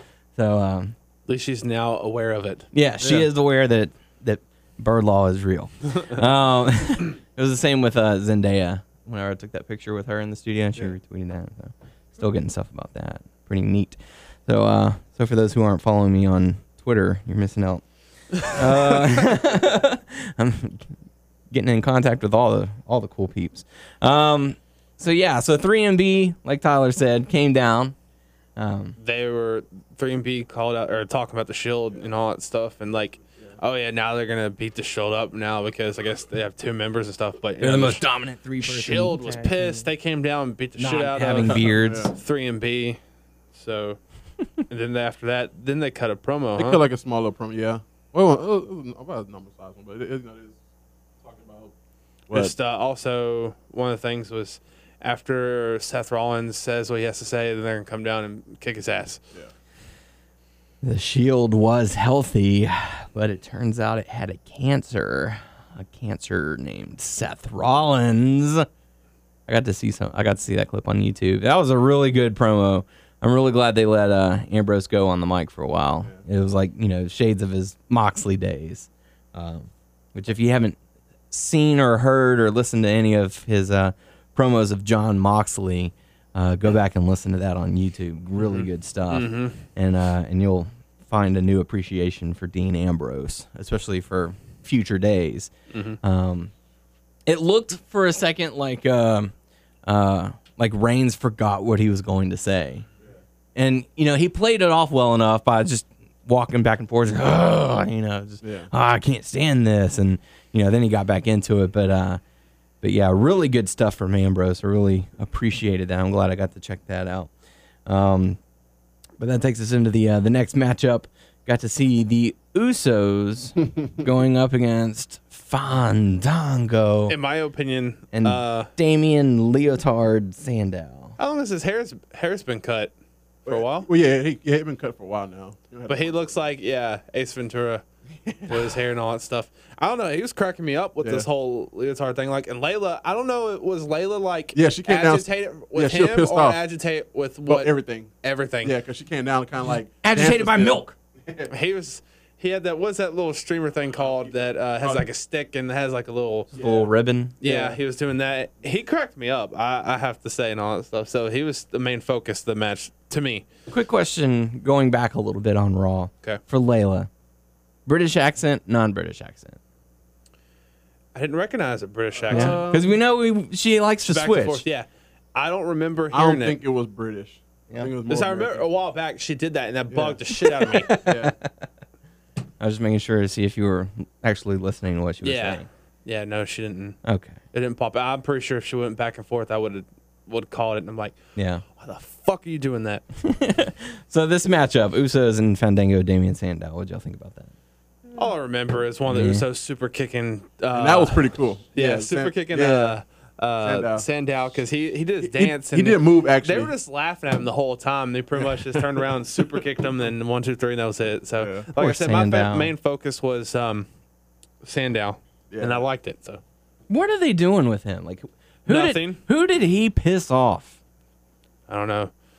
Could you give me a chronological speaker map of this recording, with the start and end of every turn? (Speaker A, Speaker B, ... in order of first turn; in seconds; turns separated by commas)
Speaker A: 0.4-0.9, Speaker B: 1.3-2.7, Speaker A: 2.7-17.8, Speaker C: 3.0-3.3, Speaker A: 18.4-20.9, Speaker A: 21.5-27.9, Speaker A: 28.6-28.9, Speaker B: 29.0-38.0, Speaker A: 37.6-39.9, Speaker B: 38.6-43.0, Speaker A: 40.8-42.1, Speaker C: 41.4-42.1, Speaker B: 43.5-44.0, Speaker B: 44.7-46.8, Speaker C: 46.6-50.6, Speaker C: 51.2-51.7, Speaker C: 52.3-52.5, Speaker B: 52.3-59.2, Speaker A: 60.8-68.7, Speaker A: 69.5-80.8, Speaker A: 81.3-96.5, Speaker B: 88.4-89.6, Speaker B: 95.7-96.0, Speaker A: 97.3-99.3, Speaker A: 99.9-102.9, Speaker A: 103.6-112.2, Speaker C: 108.4-108.7, Speaker A: 112.8-117.3, Speaker A: 117.9-118.4, Speaker A: 119.2-127.2, Speaker B: 127.1-128.7, Speaker A: 128.1-131.2, Speaker B: 131.2-132.9, Speaker B: 133.5-133.9, Speaker C: 133.5-136.2, Speaker B: 135.9-137.8, Speaker C: 138.3-138.6, Speaker B: 138.4-147.7, Speaker C: 144.6-146.6, Speaker C: 147.5-148.1, Speaker B: 148.2-148.8, Speaker C: 148.6-151.5, Speaker A: 150.0-150.9, Speaker B: 151.5-156.5, Speaker C: 154.0-155.0, Speaker C: 156.5-157.8, Speaker A: 156.6-157.4, Speaker B: 157.4-163.5, Speaker A: 163.7-167.1, Speaker A: 167.9-169.6, Speaker B: 171.2-172.7, Speaker C: 172.2-172.9, Speaker A: 172.3-174.6, Speaker B: 174.1-176.6, Speaker C: 176.1-178.6, Speaker B: 178.1-180.9, Speaker C: 179.9-181.4, Speaker A: 180.7-181.7, Speaker A: 182.6-185.7, Speaker B: 185.2-187.0, Speaker A: 187.0-187.4, Speaker B: 187.5-191.2, Speaker A: 191.4-191.6, Speaker B: 191.8-193.0, Speaker A: 193.2-197.5, Speaker B: 198.1-213.9, Speaker A: 199.1-199.4, Speaker C: 200.7-203.0, Speaker C: 203.6-204.1, Speaker C: 205.2-206.7, Speaker C: 211.4-211.7, Speaker A: 211.8-212.7, Speaker B: 214.6-216.4, Speaker C: 215.5-215.8, Speaker A: 216.9-220.8, Speaker B: 218.7-219.2, Speaker B: 221.7-222.1